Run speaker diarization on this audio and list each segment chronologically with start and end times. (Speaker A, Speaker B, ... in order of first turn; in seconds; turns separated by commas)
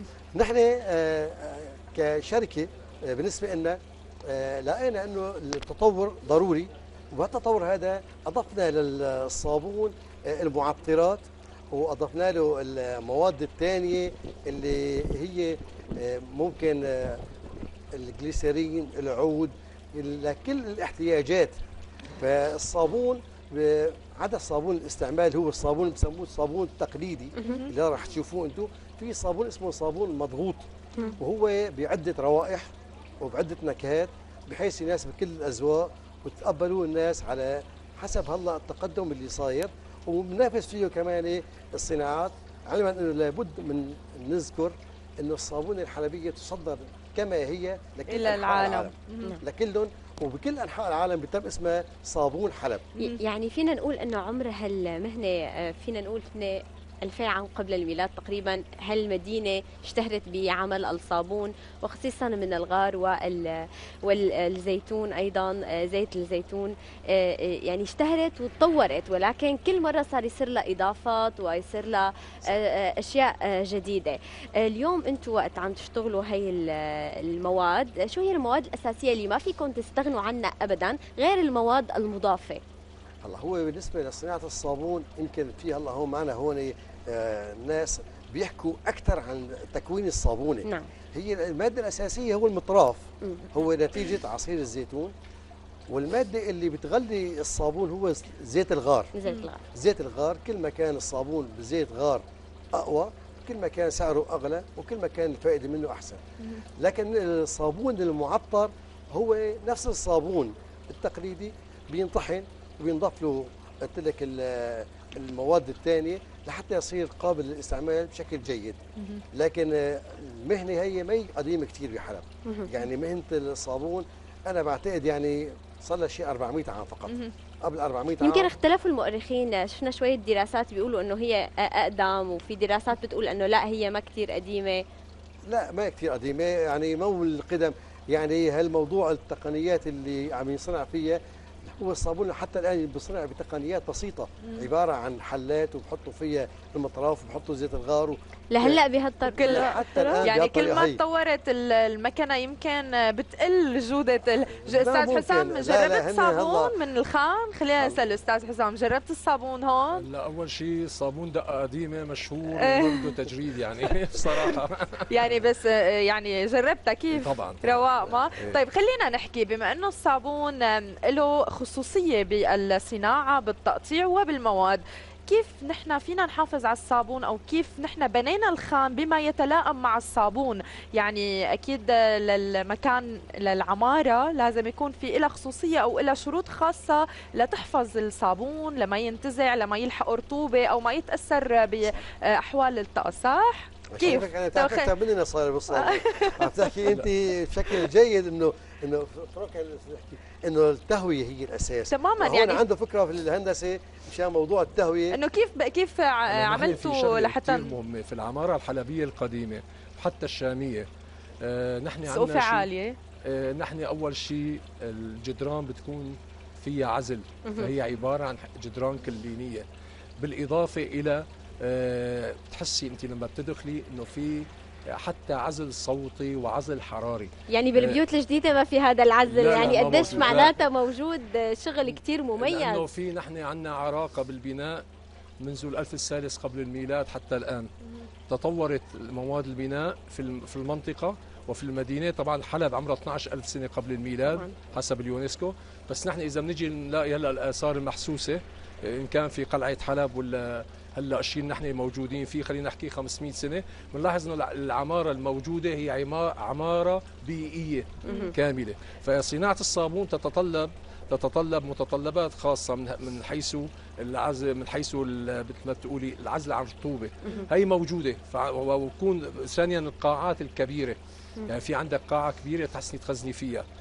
Speaker A: 0.3-17.3, Speaker A: 17.9-21.6, Speaker A: 22.2-52.9, Speaker B: 27.4-27.7, Speaker B: 48.1-49.3, Speaker B: 52.9-53.2, Speaker C: 53.0-82.6, Speaker A: 83.2-95.1, Speaker C: 93.2-93.5, Speaker A: 95.9-99.1, Speaker C: 99.1-99.6, Speaker A: 99.7-106.2, Speaker A: 106.8-118.8, Speaker B: 119.0-119.2, Speaker A: 119.3-128.6, Speaker C: 122.4-122.7, Speaker C: 128.2-134.8, Speaker A: 135.5-148.8, Speaker B: 144.4-144.7, Speaker C: 148.5-150.3, Speaker B: 149.3-160.0, Speaker A: 149.4-151.0, Speaker A: 154.6-156.7, Speaker D: 159.9-165.1, Speaker B: 162.6-163.1, Speaker B: 165.1-194.9, Speaker D: 167.1-167.8, Speaker A: 193.9-205.2, Speaker B: 195.7-196.7, Speaker B: 201.9-202.6, Speaker B: 205.1-207.7, Speaker D: 206.3-210.9, Speaker D: 211.4-212.7, Speaker B: 212.1-213.0, Speaker D: 213.2-219.6, Speaker C: 217.4-217.7, Speaker D: 220.2-228.0, Speaker C: 227.5-232.8, Speaker D: 229.2-230.6, Speaker D: 232.3-234.8, Speaker D: 235.4-237.7, Speaker D: 238.3-273.6, Speaker C: 244.2-244.5, Speaker C: 258.1-258.3